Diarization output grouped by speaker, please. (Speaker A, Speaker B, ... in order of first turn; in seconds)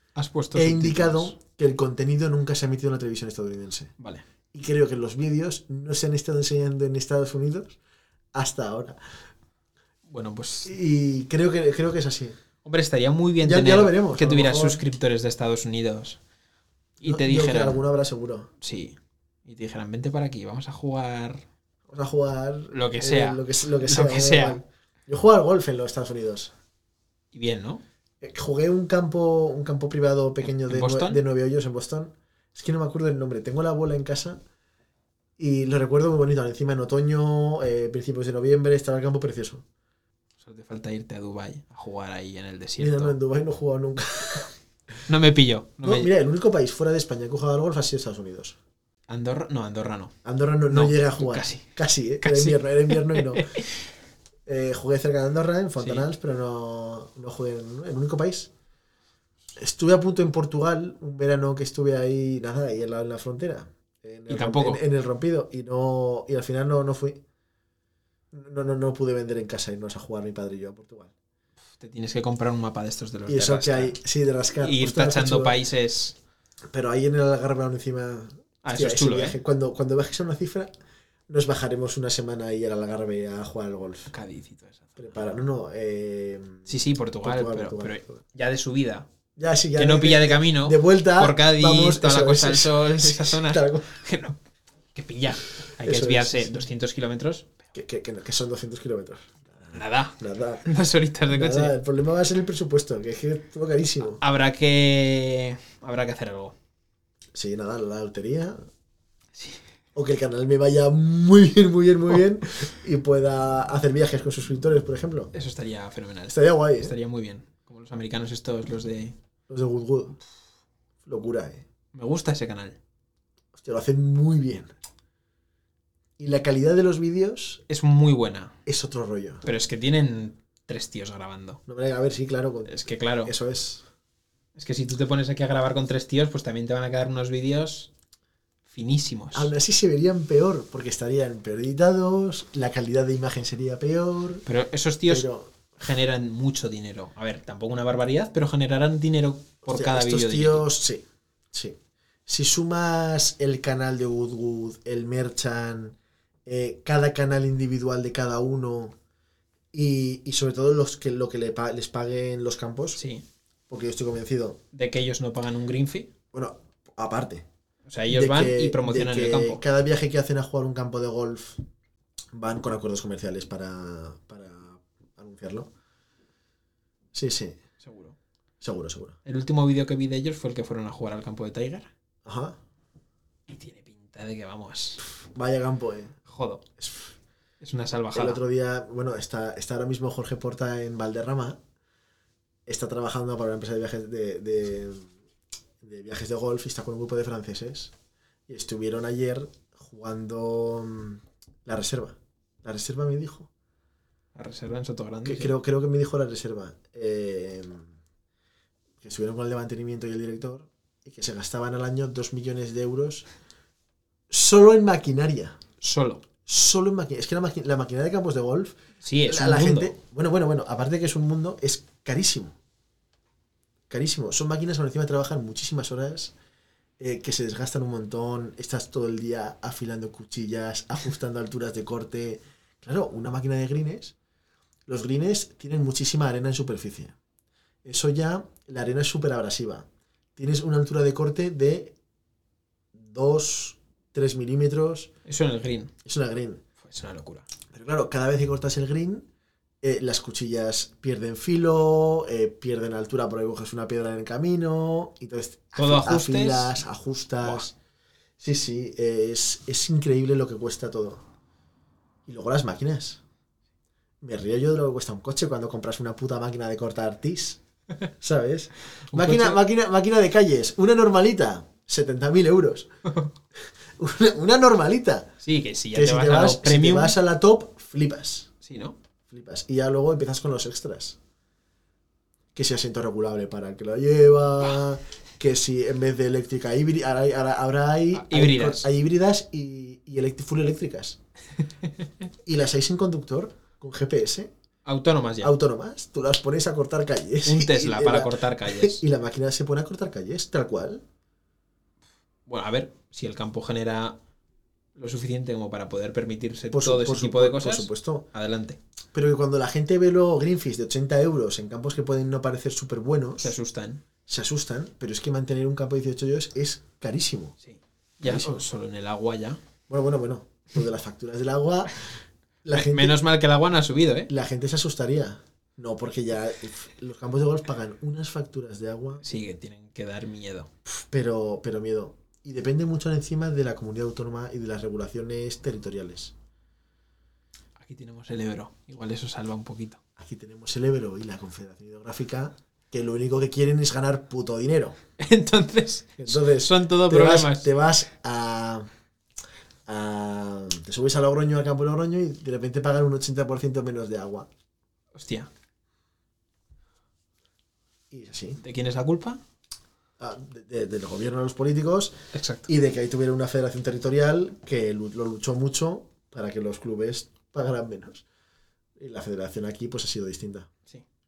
Speaker A: 0.2-1.3, 4.0-4.2, 10.1-10.7, 12.6-16.2, 17.0-17.8, 18.6-21.4, 22.7-24.6, 27.3-27.8, 30.4-31.2, 40.4-43.2, 45.1-46.1, 49.1-50.1, 50.7-51.6, 52.2-53.8, 55.8-56.0, 64.3-64.8, 71.8-74.0, 74.6-76.2, 78.6-79.4, 84.1-85.3, 86.7-89.1, 89.8-94.4, 94.9-97.5, 99.7-101.8, 104.2-106.5, 109.3-109.6, 115.3-119.2, 121.9-122.8, 127.7-128.6, 129.4-131.6, 132.7-133.3, 134.6-137.9, 138.7-139.5, 144.4-150.6, 163.0-163.2, 164.7-166.1, 167.8-169.6, 177.8-178.2, 179.2-181.9, 183.5-185.0, 186.3-186.6, 187.6-188.4, 204.3-205.5, 215.8-216.2, 219.0-219.9, 245.2-245.9, 246.8-247.5, 255.8-256.8, 269.1-269.6, 275.4-277.2, 278.6-279.0, 288.1-288.9, 294.8-295.5, 297.4-299.0, 302.5-304.2, 304.9-308.8, 313.4-314.0, 317.6-319.6, 322.7-324.3, 329.2-330.7, 337.8-340.0, 345.2-347.7, 355.1-355.5, 358.6-359.4, 362.3-362.7
Speaker B: 0.5-3.9, 4.5-7.8, 8.3-9.0, 10.6-12.4, 13.4-14.8, 17.0-18.5, 21.9-26.5, 28.2-34.4, 35.4-39.6, 42.8-44.5, 45.8-48.5, 50.2-53.6, 54.5-58.5, 59.5-67.2, 68.3-71.1, 73.3-75.6, 76.7-80.7, 81.3-84.1, 85.0-88.2, 89.4-93.9, 95.8-96.6, 97.7-100.7, 101.3-104.2, 107.3-108.6, 110.0-115.3, 116.3-117.0, 119.5-120.2, 121.0-121.6, 123.5-124.7, 126.2-127.6, 128.7-129.5, 131.7-133.8, 139.3-144.4, 145.1-145.6, 149.7-158.9, 159.7-163.0, 163.7-164.6, 166.3-167.4, 168.1-171.6, 172.3-175.7, 177.1-177.6, 178.6-179.2, 182.2-182.6, 185.2-186.2, 186.8-187.1, 188.1-191.6, 192.7-195.1, 195.8-197.9, 198.5-203.5, 205.2-207.9, 209.0-213.3, 214.3-215.6, 216.4-222.5, 223.9-226.3, 227.0-234.1, 234.9-237.1, 237.8-241.9, 242.9-245.1, 246.0-246.6, 247.7-249.3, 249.8-257.7, 258.4-261.2, 262.3-263.2, 264.2-267.6, 268.2-272.9, 274.0-275.3, 275.9-278.5, 279.3-281.2, 282.6-291.2, 292.4-294.5, 295.4-301.0, 306.7-308.3, 309.1-313.6, 314.3-317.6, 318.2-318.6, 319.9-322.1, 322.6-323.2, 324.3-329.2, 330.9-336.3, 340.2-345.0, 346.2-348.9, 349.9-354.5, 358.1-358.6, 360.2-362.2, 362.7-368.2, 369.0-370.7